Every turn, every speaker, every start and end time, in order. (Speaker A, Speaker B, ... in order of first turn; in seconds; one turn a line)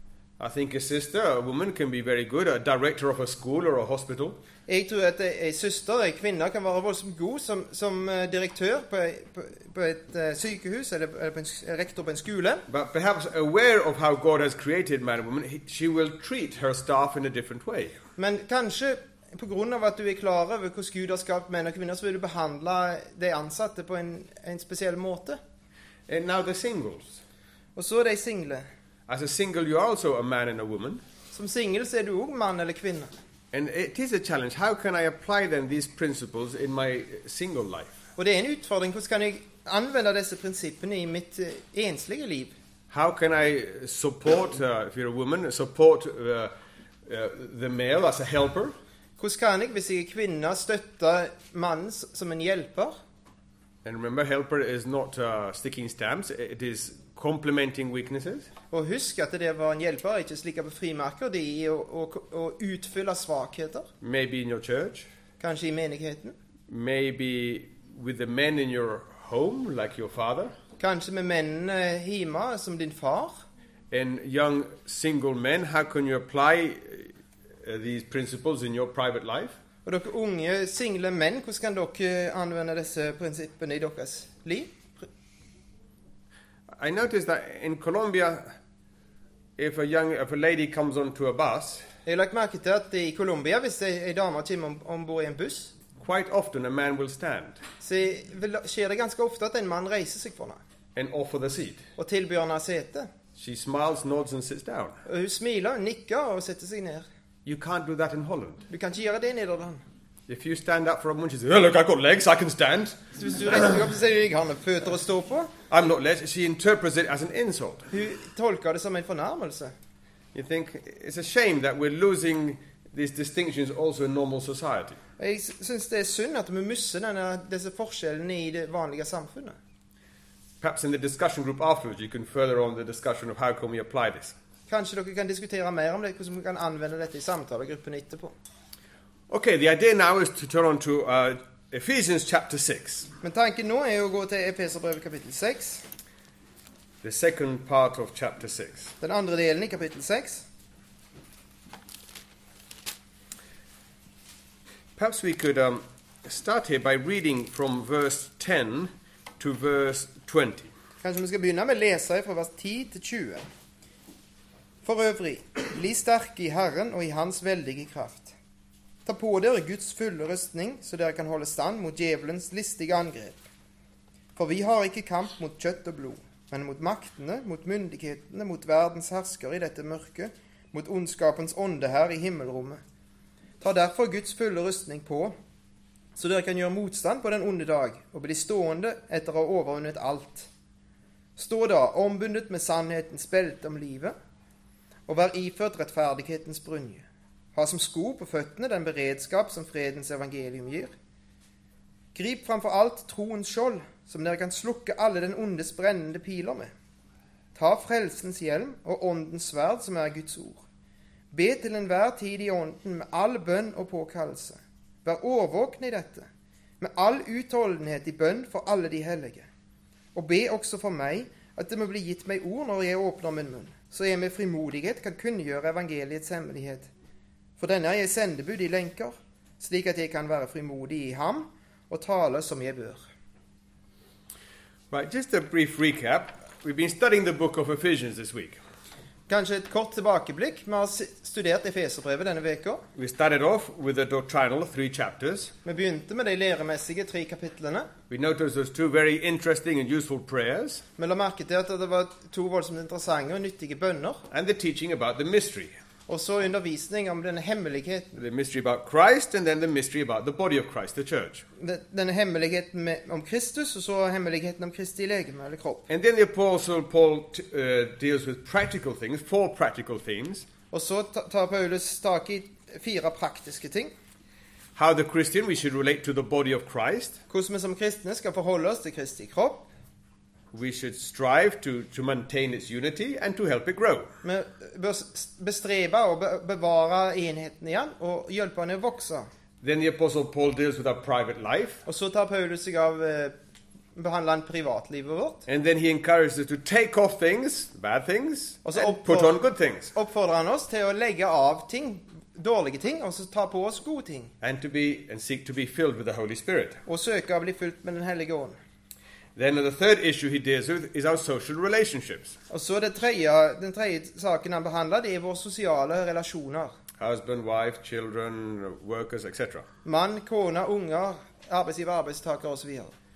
Speaker A: 0.4-4.4
Speaker B: 4.7-12.6
Speaker A: 12.7-17.9
Speaker B: 18.2-25.4
Speaker A: 26.1-27.2
Speaker B: 27.8-28.6
Speaker A: 29.1-31.0
Speaker B: 31.3-33.1
Speaker A: 33.5-38.0
Speaker B: 38.2-42.5
Speaker A: 42.9-46.5
Speaker A: 47.0-48.7
Speaker B: 49.2-52.9
Speaker A: 53.8-58.5
Speaker B: 58.7-63.9
Speaker A: 64.0-65.1
Speaker B: 65.4-66.3
Speaker A: 66.7-70.5
Speaker B: 70.8-73.4
Speaker A: 73.9-79.6
Speaker B: 79.8-85.0
Speaker A: 86.8-88.5
Speaker A: 89.6-91.8
Speaker B: 92.0-95.7
Speaker A: 96.0-97.6
Speaker B: 97.8-100.6
Speaker A: 100.9-101.8
Speaker B: 102.0-103.1
Speaker A: 103.3-105.0
Speaker B: 105.0-107.0
Speaker A: 107.4-108.7
Speaker B: 108.7-109.8
Speaker A: 110.3-113.0
Speaker B: 113.1-115.5
Speaker A: 115.7-117.9
Speaker B: 117.9-119.7
Speaker A: 120.3-125.0
Speaker B: 125.2-129.6
Speaker A: 130.6-134.3
Speaker B: 134.7-138.3
Speaker A: 139.3-143.1
Speaker B: 143.2-145.8
Speaker A: 147.0-148.9
Speaker B: 149.0-150.4
Speaker A: 154.9-160.7
Speaker B: 161.0-163.4
Speaker B: 164.8-168.3
Speaker B: 169.1-173.4
Speaker B: 174.3-182.8
Speaker B: 183.6-185.3
Speaker B: 186.2-190.5
Speaker B: 191.4-194.1
Speaker B: 195.1-197.0
Speaker B: 197.6-200.9
Speaker B: 202.1-206.7
Speaker B: 207.5-210.6
Speaker B: 211.3-216.3
Speaker B: 216.8-219.5
Speaker B: 220.1-226.9
Speaker B: 227.6-233.0
Speaker A: 234.9-238.6
Speaker B: 239.3-242.8
Speaker A: 242.9-245.5
Speaker B: 245.6-247.9
Speaker A: 248.1-250.8
Speaker B: 251.0-254.2
Speaker A: 254.3-255.7
Speaker B: 256.1-258.1
Speaker A: 258.1-261.4
Speaker B: 261.6-265.9
Speaker A: 265.9-270.5
Speaker B: 270.7-273.9
Speaker A: 274.7-277.2
Speaker B: 277.3-279.7
Speaker A: 280.5-284.1
Speaker B: 284.2-289.3
Speaker A: 289.6-291.8
Speaker B: 291.9-293.3
Speaker B: 293.9-295.5
Speaker A: 295.5-299.9
Speaker B: 298.6-299.4
Speaker B: 299.9-304.3
Speaker A: 304.4-306.8
Speaker B: 306.9-308.6
Speaker A: 309.4-312.3
Speaker B: 312.5-316.7
Speaker A: 317.0-319.7
Speaker B: 319.8-322.9